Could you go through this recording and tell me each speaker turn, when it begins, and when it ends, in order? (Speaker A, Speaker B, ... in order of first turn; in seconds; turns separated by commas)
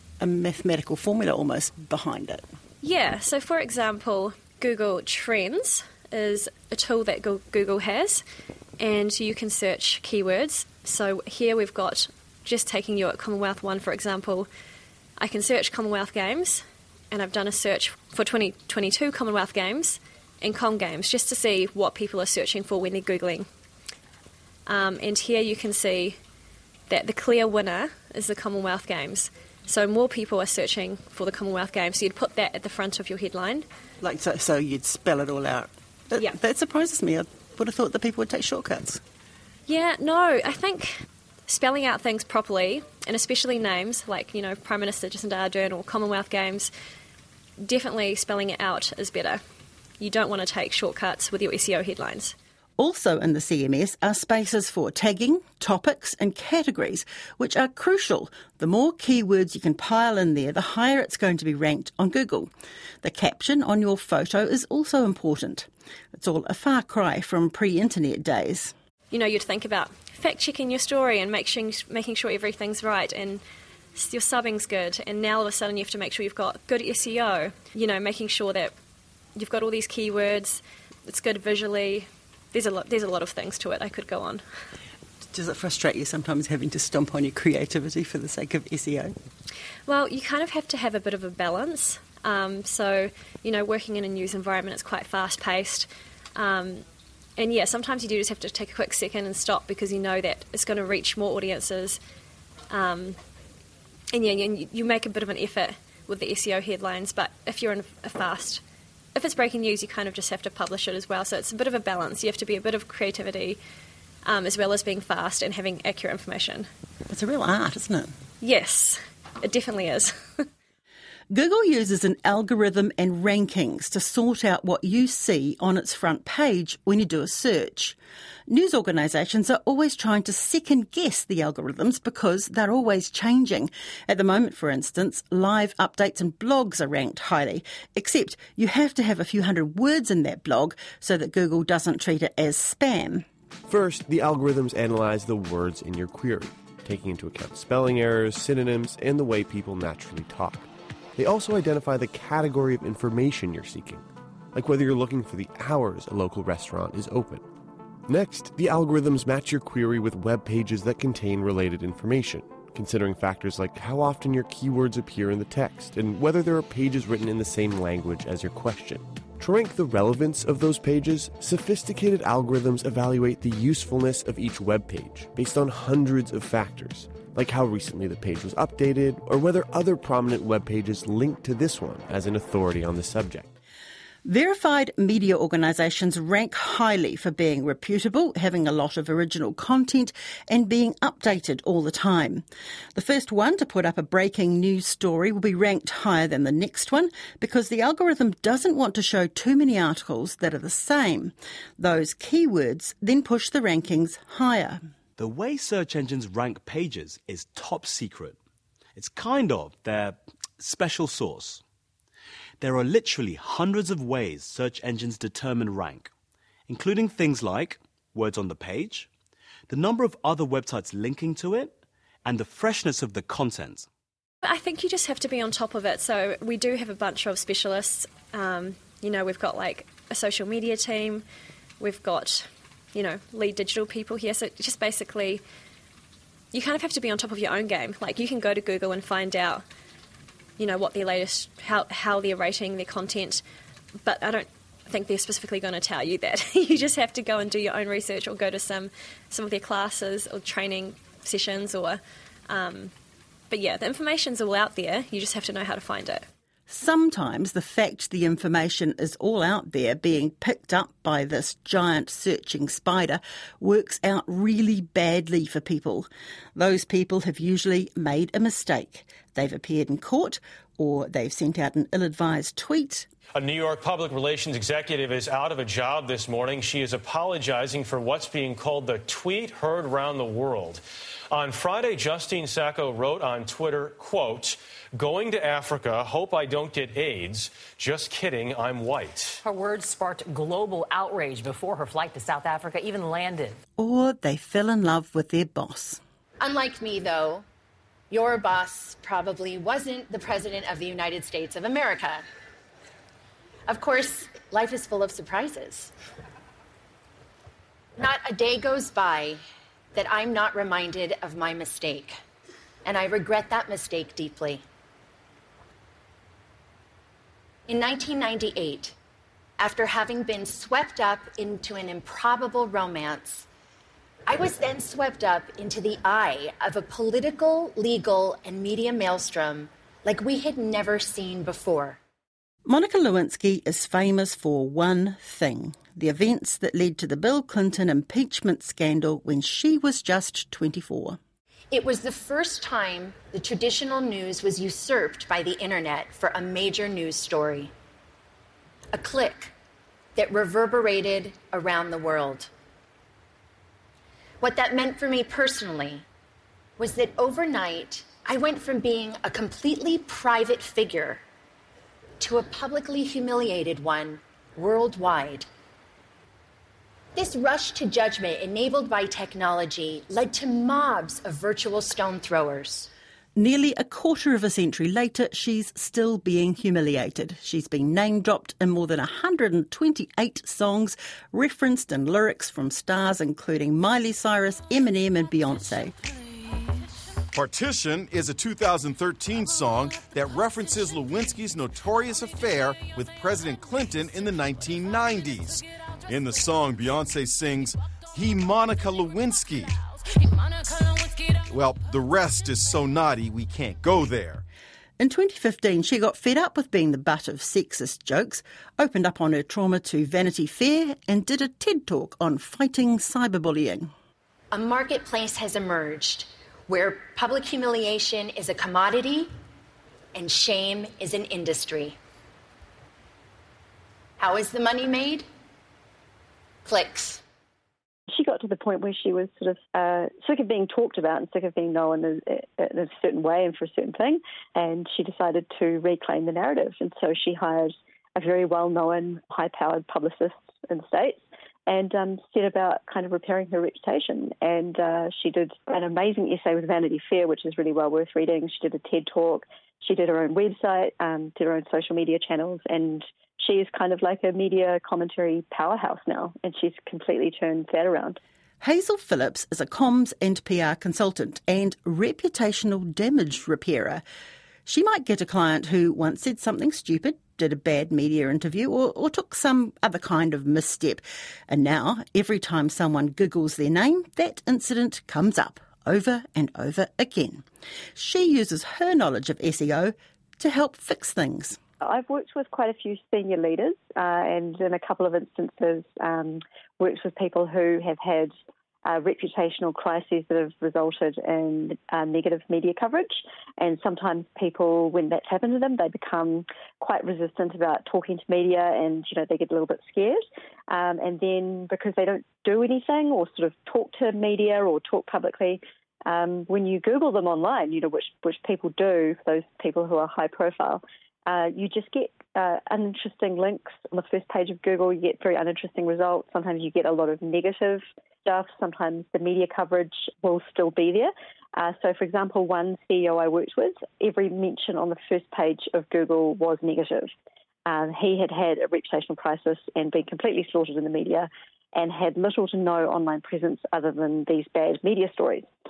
Speaker A: 0.2-2.4, Speaker B: 2.8-8.2, Speaker B: 8.8-14.5, Speaker B: 15.2-23.5, Speaker B: 24.7-26.2, Speaker B: 26.9-33.6, Speaker A: 34.0-39.0, Speaker B: 39.7-46.7, Speaker B: 47.6-49.4, Speaker B: 50.0-52.3, Speaker A: 52.8-62.5, Speaker A: 63.0-68.7, Speaker B: 69.1-73.4, Speaker B: 73.9-78.7, Speaker B: 79.3-84.4, Speaker A: 85.3-89.1, Speaker B: 89.9-96.8, Speaker B: 97.4-102.0, Speaker B: 102.7-103.2, Speaker B: 104.1-108.6, Speaker B: 109.1-113.6, Speaker B: 114.2-116.7, Speaker A: 117.1-118.1, Speaker B: 118.4-120.5, Speaker A: 121.3-143.2, Speaker C: 143.7-154.0, Speaker C: 154.5-157.4, Speaker C: 158.1-183.5, Speaker A: 184.2-204.8, Speaker D: 205.2-208.4, Speaker D: 208.9-211.6, Speaker D: 212.6-216.1, Speaker D: 216.7-219.1, Speaker D: 219.7-223.9, Speaker B: 224.4-231.2, Speaker B: 231.8-235.4, Speaker B: 236.5-239.6, Speaker B: 240.6-243.4, Speaker B: 244.0-252.9, Speaker B: 253.5-256.2, Speaker A: 256.7-273.1, Speaker E: 273.3-289.4, Speaker F: 289.4-293.6, Speaker A: 293.8-296.0, Speaker G: 296.4-297.4, Speaker G: 298.1-302.2, Speaker G: 303.7-305.9, Speaker G: 308.0-309.4, Speaker G: 309.9-312.2, Speaker G: 312.8-314.6, Speaker G: 317.7-318.9, Speaker G: 319.6-323.5, Speaker G: 324.3-332.0, Speaker A: 332.6-341.2, Speaker G: 341.7-347.7, Speaker G: 348.9-349.5, Speaker G: 350.1-352.5, Speaker G: 354.4-356.0, Speaker G: 356.8-361.2, Speaker G: 362.2-365.5, Speaker G: 367.1-372.9, Speaker A: 373.4-385.9, Speaker H: 387.3-399.8, Speaker H: 401.5-404.4, Speaker A: 405.0-413.9, Speaker G: 414.5-419.3, Speaker G: 420.1-422.0, Speaker G: 424.2-425.2, Speaker G: 426.6-427.2, Speaker I: 428.1-458.2, Speaker A: 458.6-464.0, Speaker A: 464.6-477.4, Speaker A: 477.9-481.6, Speaker I: 481.8-488.3, Speaker I: 488.8-527.1, Speaker I: 527.6-535.5